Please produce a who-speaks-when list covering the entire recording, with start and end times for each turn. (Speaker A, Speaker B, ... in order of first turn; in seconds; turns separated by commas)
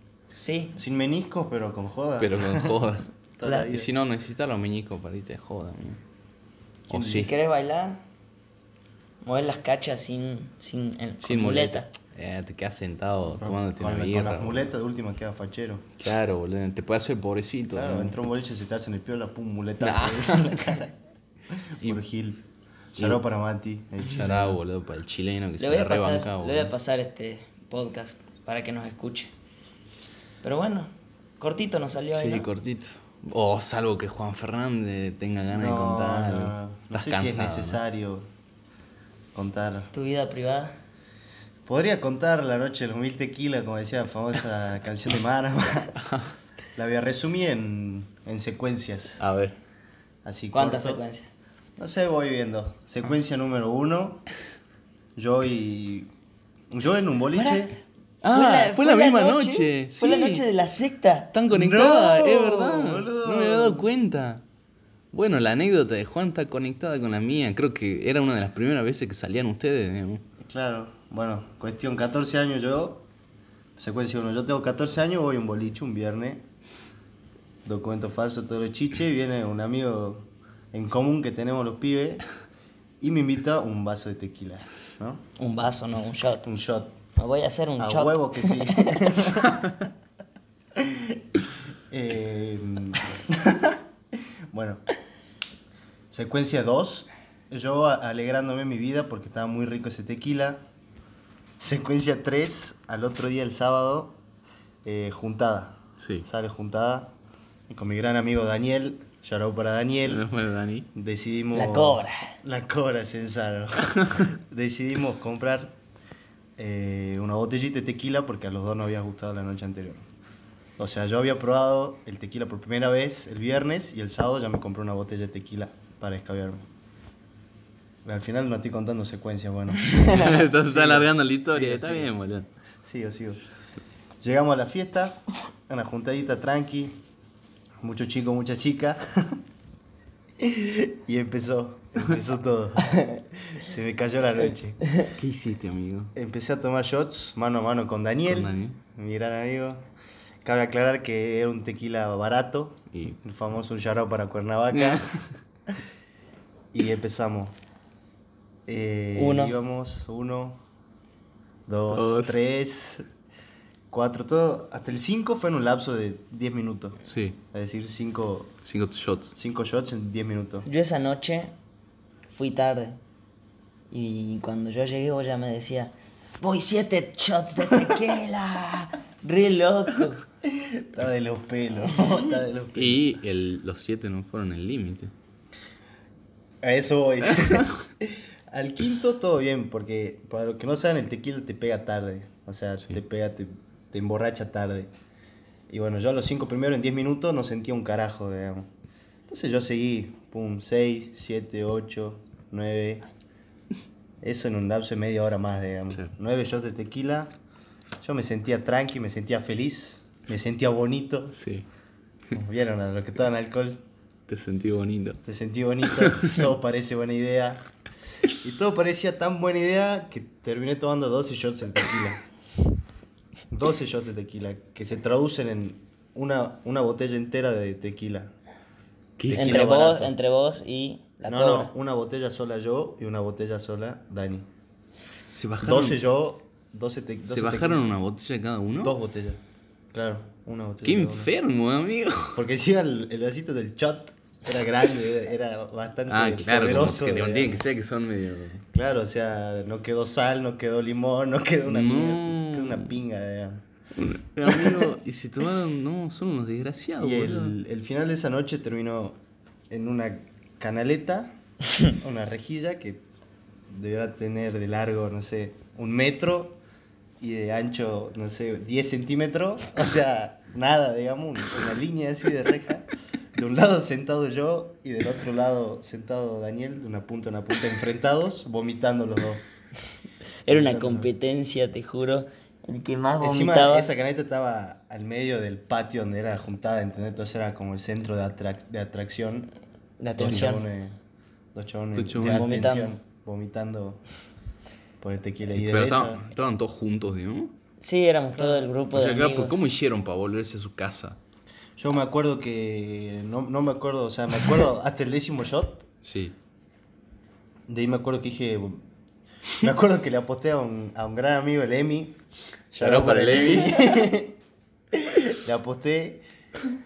Speaker A: 0.3-0.8, Speaker B: 0.8-2.8, Speaker C: 2.2-3.1, Speaker B: 3.4-3.9, Speaker A: 3.4-3.7, Speaker C: 3.6-6.0, Speaker B: 6.9-7.3, Speaker C: 6.9-7.3, Speaker A: 7.0-8.0, Speaker A: 9.2-11.9, Speaker C: 11.2-14.7, Speaker B: 13.2-15.9, Speaker C: 16.0-18.2, Speaker B: 17.7-20.9, Speaker C: 19.8-20.8, Speaker B: 21.5-22.4, Speaker B: 22.9-24.6, Speaker C: 24.1-26.7, Speaker A: 25.6-29.3, Speaker A: 30.4-32.5, Speaker C: 32.1-37.8, Speaker B: 35.5-38.3, Speaker B: 39.3-39.9, Speaker A: 39.9-40.8, Speaker B: 41.7-46.0, Speaker C: 46.0-46.3, Speaker B: 46.8-49.2, Speaker C: 49.2-49.6, Speaker B: 50.2-51.0, Speaker A: 50.5-51.3, Speaker B: 51.8-54.2, Speaker B: 55.2-56.1, Speaker B: 56.7-57.8, Speaker A: 57.3-57.7, Speaker C: 58.2-60.5, Speaker A: 58.3-61.3, Speaker C: 61.3-64.4, Speaker B: 61.5-63.9, Speaker C: 65.1-70.3, Speaker B: 70.4-73.1, Speaker B: 73.8-76.5, Speaker B: 77.7-82.3, Speaker B: 83.0-85.2, Speaker A: 85.4-86.5, Speaker B: 86.5-87.0, Speaker A: 87.2-89.1, Speaker B: 87.8-89.6, Speaker B: 90.7-91.2, Speaker B: 91.9-94.8, Speaker B: 96.1-100.7, Speaker B: 101.6-104.2, Speaker B: 104.8-107.1, Speaker C: 106.0-106.3, Speaker B: 107.7-110.2, Speaker C: 110.0-110.9, Speaker B: 111.0-115.8, Speaker A: 111.5-112.4, Speaker B: 116.6-120.1, Speaker B: 120.8-126.7, Speaker B: 128.0-132.1, Speaker C: 130.1-132.5, Speaker B: 132.8-133.4, Speaker B: 134.2-137.0, Speaker B: 137.8-139.4, Speaker B: 140.4-144.8, Speaker C: 145.1-146.1, Speaker B: 146.2-149.9, Speaker C: 148.3-148.8, Speaker B: 150.4-155.0, Speaker C: 152.9-153.2, Speaker C: 154.7-155.3, Speaker B: 156.7-157.6, Speaker B: 158.7-160.6, Speaker A: 159.2-159.6, Speaker B: 161.7-163.1, Speaker C: 161.9-162.4, Speaker B: 163.9-168.6, Speaker C: 167.1-167.4, Speaker C: 168.7-169.3, Speaker B: 169.3-170.7, Speaker A: 170.7-171.6, Speaker A: 172.3-173.0, Speaker A: 173.9-180.2, Speaker B: 180.4-183.0, Speaker C: 182.8-185.1, Speaker B: 186.6-194.9, Speaker B: 195.7-198.7, Speaker B: 199.3-203.1, Speaker B: 204.2-207.4, Speaker B: 208.0-211.4, Speaker C: 211.3-211.7, Speaker B: 212.3-213.8, Speaker C: 214.3-215.2, Speaker B: 215.2-217.7, Speaker C: 216.0-216.3, Speaker B: 218.4-222.2, Speaker B: 223.5-228.3, Speaker C: 229.2-229.7, Speaker B: 229.3-230.1, Speaker A: 229.3-231.7, Speaker B: 231.2-234.5, Speaker C: 235.3-236.0, Speaker B: 235.6-237.9, Speaker C: 237.2-239.0, Speaker B: 238.8-239.4, Speaker B: 239.9-241.3, Speaker C: 240.8-242.4, Speaker B: 242.3-247.6, Speaker C: 246.1-248.7, Speaker B: 248.7-253.6, Speaker C: 251.7-253.0, Speaker C: 253.9-257.6, Speaker B: 254.5-254.9, Speaker B: 257.0-259.2, Speaker B: 259.7-263.1, Speaker B: 263.7-266.6, Speaker B: 267.2-279.5, Speaker A: 280.4-283.9, Speaker B: 280.5-281.1, Speaker B: 283.2-289.5, Speaker A: 290.0-290.6, Speaker B: 290.2-291.0, Speaker B: 291.5-294.0, Speaker C: 292.0-292.5, Speaker A: 292.2-292.9, Speaker B: 295.0-296.2, Speaker C: 295.5-297.6, Speaker A: 297.8-299.6, Speaker C: 298.9-301.2, Speaker B: 301.8-305.9, Speaker C: 306.0-306.4, Speaker B: 307.7-308.9, Speaker B: 309.6-314.4, Speaker C: 312.8-314.0, Speaker B: 314.9-316.2